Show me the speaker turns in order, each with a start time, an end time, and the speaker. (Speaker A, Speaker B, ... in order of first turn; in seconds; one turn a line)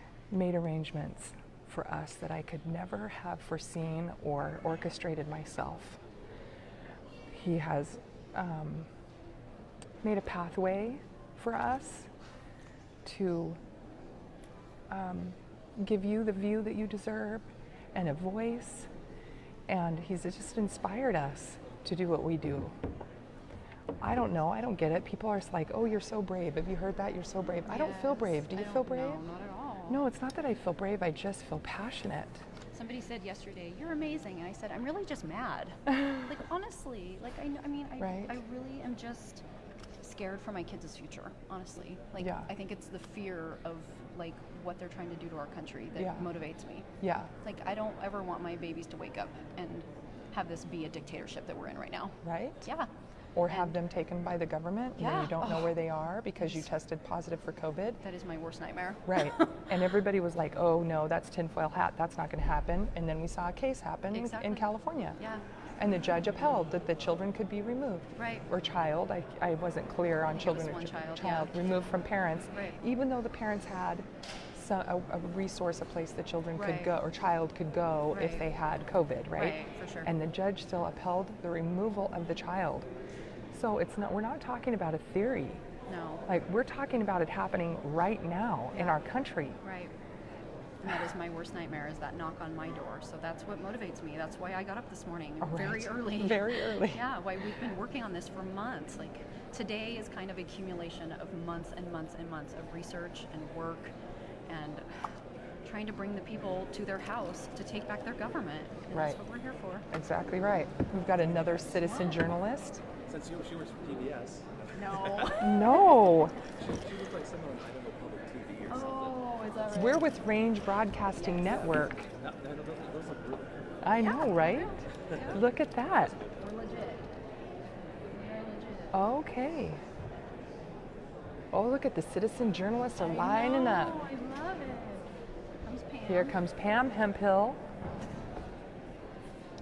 Speaker A: 0.3-6.0
Speaker A: 7.3-8.9
Speaker A: 10.0-12.1
Speaker A: 13.0-13.6
Speaker A: 14.9-18.9
Speaker A: 19.7-22.7
Speaker A: 24.0-29.2
Speaker B: 27.6-30.0
Speaker A: 29.9-32.4
Speaker B: 32.7-39.4
Speaker A: 38.0-38.3
Speaker B: 40.0-46.9
Speaker A: 42.2-42.5
Speaker A: 47.0-47.3
Speaker B: 47.4-52.9
Speaker A: 52.2-52.6
Speaker A: 53.3-58.0
Speaker B: 53.5-53.8
Speaker B: 55.0-55.8
Speaker B: 56.4-56.6
Speaker B: 58.0-59.7
Speaker A: 59.1-65.2
Speaker B: 64.1-65.4
Speaker A: 65.8-82.9
Speaker B: 68.2-68.5
Speaker B: 70.3-71.5
Speaker B: 72.5-72.8
Speaker B: 76.5-76.9
Speaker B: 78.1-78.5
Speaker B: 79.3-80.1
Speaker A: 83.5-85.6
Speaker B: 85.9-86.2
Speaker A: 86.2-89.6
Speaker B: 88.7-89.0
Speaker B: 89.6-89.9
Speaker B: 90.8-103.9
Speaker A: 95.4-97.0
Speaker B: 104.5-104.9
Speaker B: 105.6-109.8
Speaker A: 108.9-109.2
Speaker A: 109.9-112.8
Speaker B: 111.3-112.2
Speaker C: 113.0-115.3
Speaker B: 114.7-116.2
Speaker A: 115.4-116.4
Speaker C: 116.5-119.2
Speaker B: 118.7-120.1
Speaker A: 119.7-122.0
Speaker C: 121.4-123.7
Speaker A: 123.8-126.1
Speaker B: 123.9-125.4
Speaker B: 126.3-127.1
Speaker B: 128.0-129.0
Speaker A: 128.9-129.8
Speaker A: 131.5-134.0
Speaker B: 132.9-136.4
Speaker A: 136.1-137.6